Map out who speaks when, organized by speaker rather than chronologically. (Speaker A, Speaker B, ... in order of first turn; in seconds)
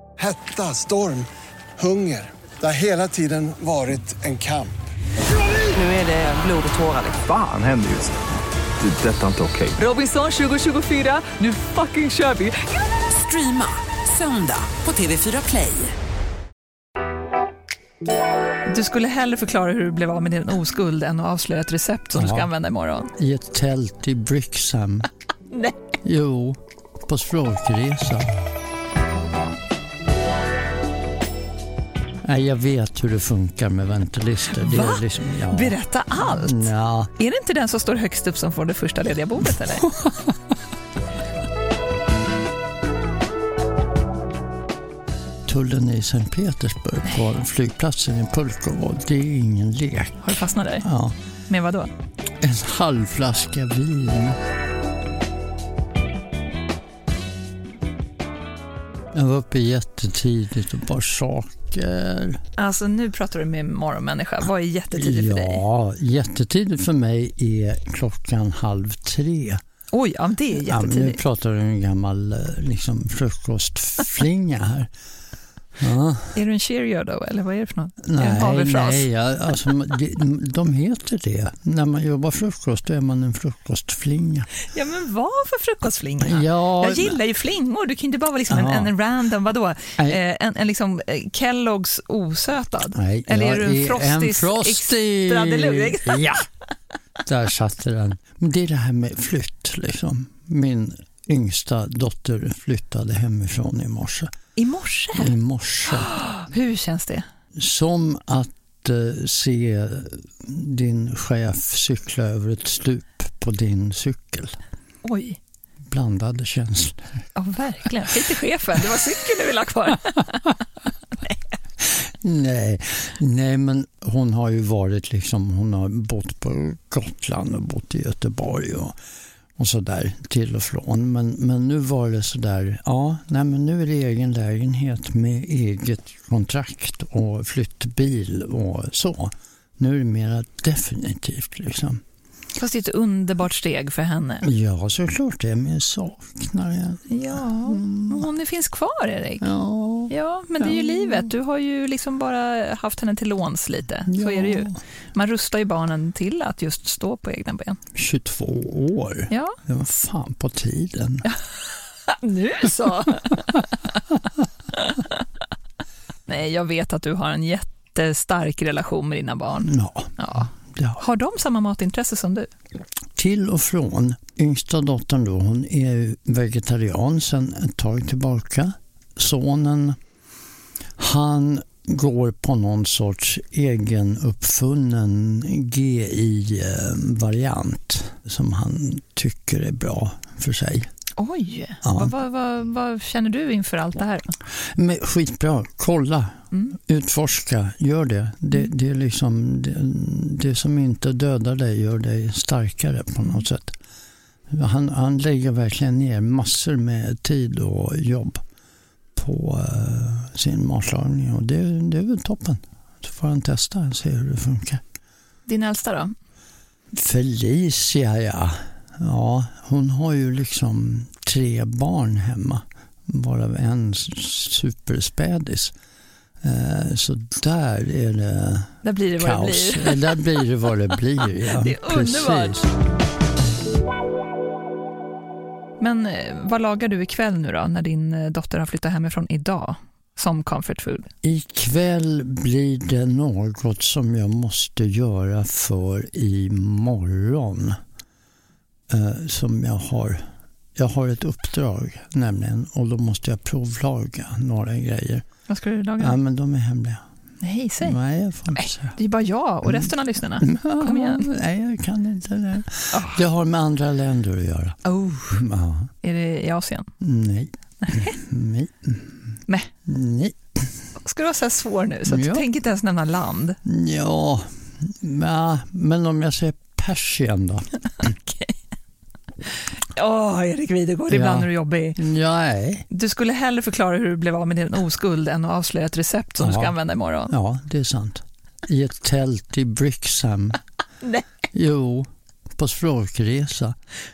Speaker A: 0.2-4.8
Speaker B: 5.6-7.2, 9.8-15.9
Speaker C: 7.1-8.2, 8.8-9.8
Speaker D: 18.7-23.1, 34.6-39.9, 50.2-50.9, 51.5-51.9, 62.6-65.6, 69.9-71.2, 76.3-79.1, 84.6-96.4, 104.5-105.3, 105.9-107.2, 115.0-115.4, 117.3-120.6, 142.6-144.4, 147.1-149.5, 150.1-157.8, 159.3-159.6, 162.1-163.7, 164.8-165.2, 166.3-172.5, 191.2-194.3, 215.5-216.1, 228.8-230.2, 231.6-232.7, 235.8-241.1, 255.5-256.2, 257.4-258.0, 258.5-261.3, 262.9-263.2, 264.9-265.2, 266.0-266.9, 267.8-268.1, 271.0-273.6, 278.0-278.5, 279.9-282.0, 282.9-287.3
Speaker E: 22.1-22.5, 23.2-25.1, 26.0-28.3, 32.2-37.1, 45.5-51.1, 52.4-54.4, 59.1-62.4, 64.9-69.6, 70.6-74.9, 75.8-76.4, 78.0-84.5, 86.2-87.2, 88.5-88.9, 92.9-96.4, 97.2-104.3, 105.2-106.1, 107.5-114.6, 115.9-117.0, 121.8-128.9, 129.6-142.0, 144.4-148.3, 149.4-151.2, 154.1-154.8, 157.9-161.2, 169.7-171.0, 173.2-180.0, 181.0-190.9, 191.8-192.1, 194.6-203.8, 204.5-208.4, 209.2-214.8, 216.9-225.7, 226.4-232.7, 241.2-247.8, 248.9-255.2, 256.0-257.0, 257.8-259.0, 260.4-265.9, 267.0-269.2, 269.9-270.7, 272.1-272.4, 273.6-278.1, 281.1-282.9, 286.4-286.7, 287.3-290.6, 291.5-293.8